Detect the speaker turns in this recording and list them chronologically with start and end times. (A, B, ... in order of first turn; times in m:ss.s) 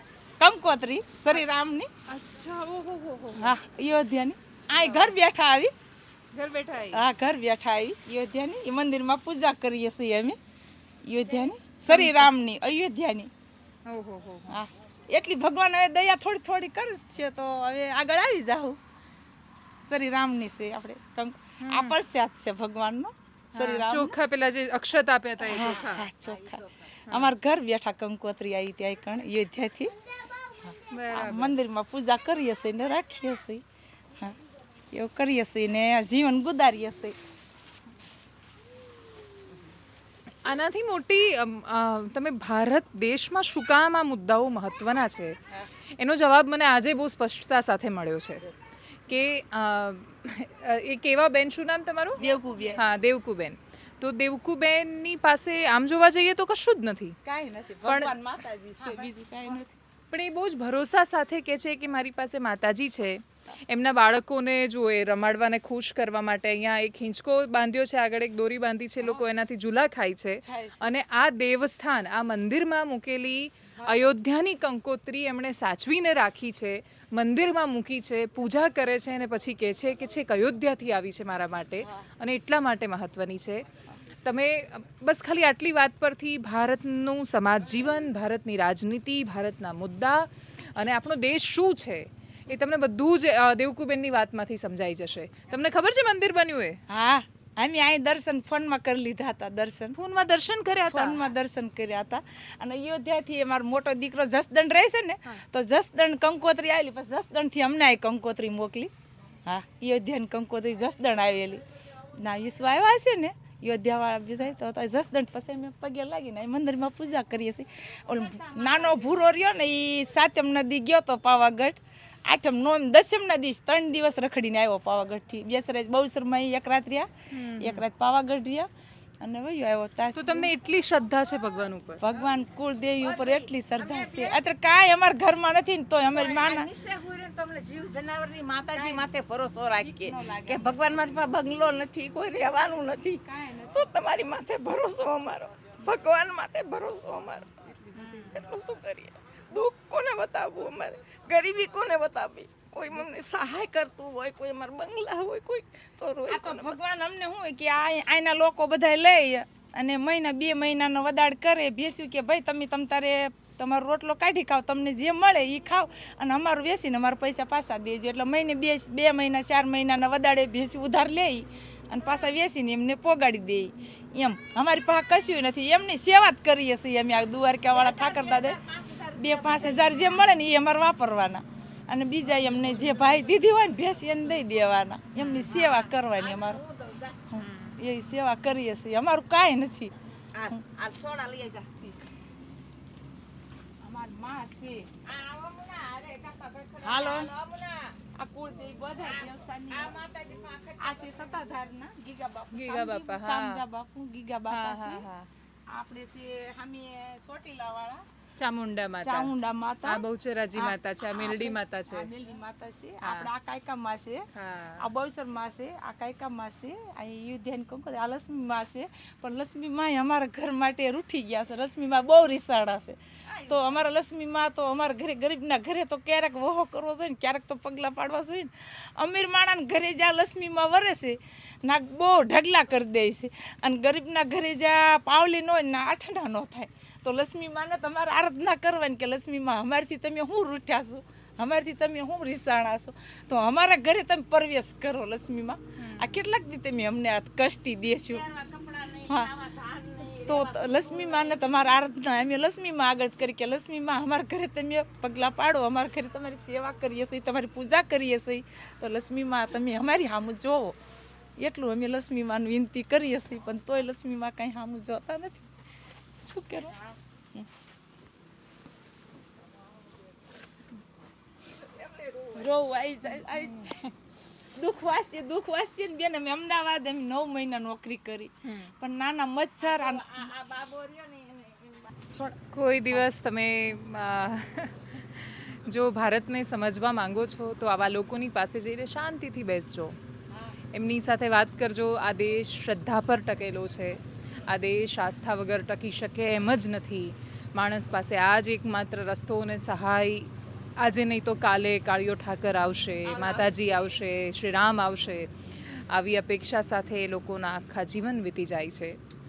0:00.4-0:01.9 A
0:02.1-0:03.6 B
0:03.4-0:05.7 A
0:04.7-0:05.2 B
0:06.3-0:07.1 B
0:06.9-0:10.4 A
0:11.0-0:13.3 A
0:11.9-0:12.3 B
0:13.9-0:14.6 B
0:14.5-0:18.8 A
0:19.8-0:24.2 A
0:21.6-0:22.0 B
0:23.5-0:26.1 B
0:25.4-0:29.9 A
0:27.1-0:27.3 B
0:30.6-0:33.6 A
0:30.9-0:31.6 B
0:34.9-0:37.1 A
0:40.3-0:48.5 B
0:49.0-0:57.2 B
0:52.2-0:52.8 A
0:57.2-0:59.8 A
0:57.8-0:58.3 B
0:58.8-0:59.1 B
1:00.1-1:36.8 B
1:10.4-1:10.9 A
1:13.8-1:14.1 A
1:36.9-1:40.0 A
1:40.0-1:41.3 B
1:40.9-1:48.9 A
1:49.4-2:08.7 A
1:58.1-1:59.3 C
2:07.3-2:07.9 B
2:09.2-2:10.5 A
2:10.1-2:12.2 B
2:12.0-2:16.7 A
2:13.0-2:14.4 C
2:16.1-2:36.8 C
2:18.8-2:19.0 A
2:19.8-2:20.8 A
2:23.2-2:23.9 A
2:27.6-2:28.4 A
2:36.3-3:06.6 A
2:57.7-3:00.2 C
3:05.2-3:05.7 B
3:05.6-3:07.3 C
3:07.3-3:09.9 A
3:07.4-3:07.8 B
3:10.3-3:11.8 C
3:13.8-3:14.9 A
3:15.0-3:18.0 C
3:16.8-3:17.3 A
3:18.1-3:20.0 A
3:19.0-3:21.5 C
3:20.8-3:25.1 A
3:22.5-3:23.6 B
3:24.5-3:25.3 B
3:25.7-3:28.0 A
3:28.4-3:29.3 B
3:29.0-3:30.0 A
3:29.8-3:32.1 B
3:30.5-3:34.3 A
3:33.0-3:33.3 B
3:34.3-3:34.9 B
3:34.8-4:08.3 A
4:05.8-4:06.2 B
4:08.1-4:11.4 C
4:09.0-4:09.4 A
4:10.1-4:20.8 A
4:21.4-4:25.5 A
4:26.2-4:26.8 A
4:31.5-4:32.5 C
4:32.3-4:40.3 A
4:38.4-4:38.7 B
4:39.6-4:42.0 C
4:42.1-4:42.4 A
4:42.5-4:50.0 B
4:50.7-5:09.0 B